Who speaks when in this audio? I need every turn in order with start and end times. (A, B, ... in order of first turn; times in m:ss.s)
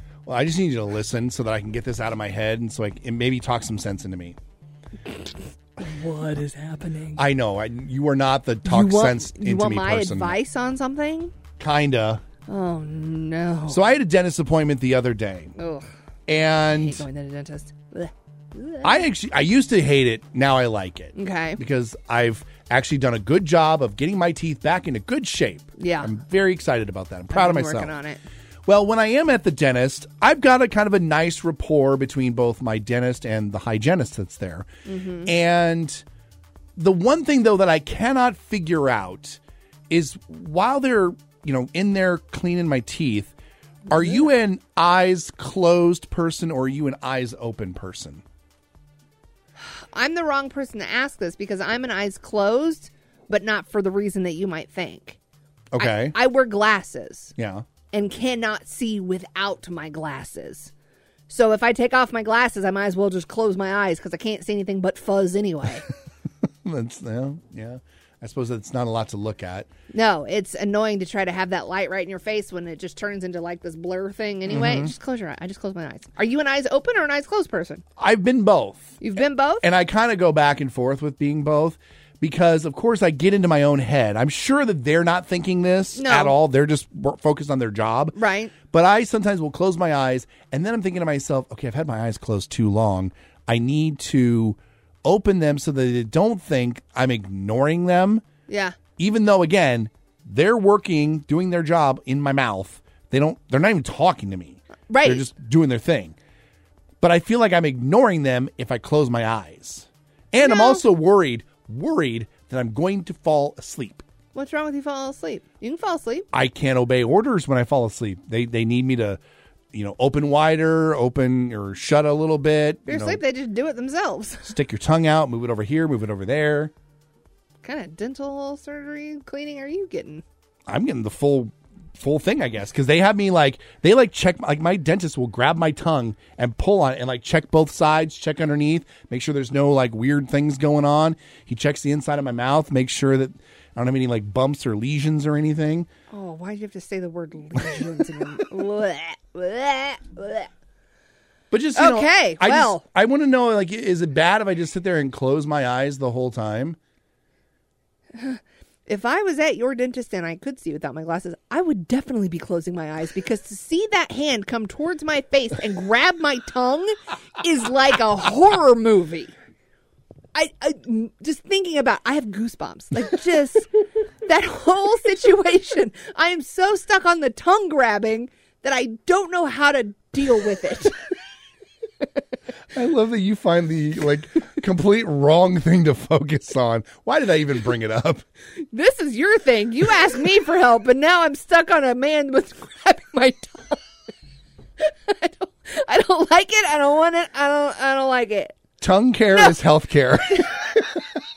0:00.2-0:04.4 A
0:06.0-0:07.0 B
0:07.2-0:10.4 A
0:08.6-0:11.3 B
0:11.6-0:12.2 A
0:12.5-0:13.8 B
0:13.7-0:15.5 A
0:15.6-0:15.9 B
0:16.3-0:17.0 A
0:16.7-0:19.0 B
0:18.8-0:27.9 A
0:21.2-0:21.6 B
0:25.8-0:26.1 B
0:27.3-0:28.2 B
0:28.7-0:34.7 A
0:34.8-0:35.3 B
0:35.2-0:36.0 A
0:36.8-0:43.3 A
0:43.9-0:48.2 A
0:49.7-0:55.2 B
0:55.7-0:56.2 A
0:55.8-0:57.3 B
0:57.4-0:57.6 A
0:57.9-1:00.7 B
1:01.3-1:05.9 B
1:06.6-1:09.7 A
1:09.9-1:17.8 B
1:14.5-1:14.9 A
1:18.0-1:19.0 A
1:19.0-1:19.6 B
1:19.6-1:38.2 A
1:26.0-1:26.4 B
1:28.1-1:28.5 B
1:38.5-1:38.8 B
1:39.0-1:46.2 A
1:44.9-1:45.3 B
1:47.0-1:54.0 A
1:50.4-1:50.8 B
1:54.3-1:56.2 B
1:56.3-1:59.2 A
1:59.7-2:03.2 A
2:02.9-2:04.5 B
2:04.4-2:06.7 A
2:07.6-2:10.2 B
2:10.7-2:25.9 A
2:26.1-2:30.5 B
2:31.5-2:36.8 A
2:31.8-2:32.8 B
2:38.1-2:49.3 B
2:50.3-2:53.7 B
2:54.2-3:00.9 B
3:02.7-3:08.2 A
3:08.6-3:13.8 B
3:14.8-3:18.6 B
3:18.8-3:20.5 A
3:19.3-3:19.6 B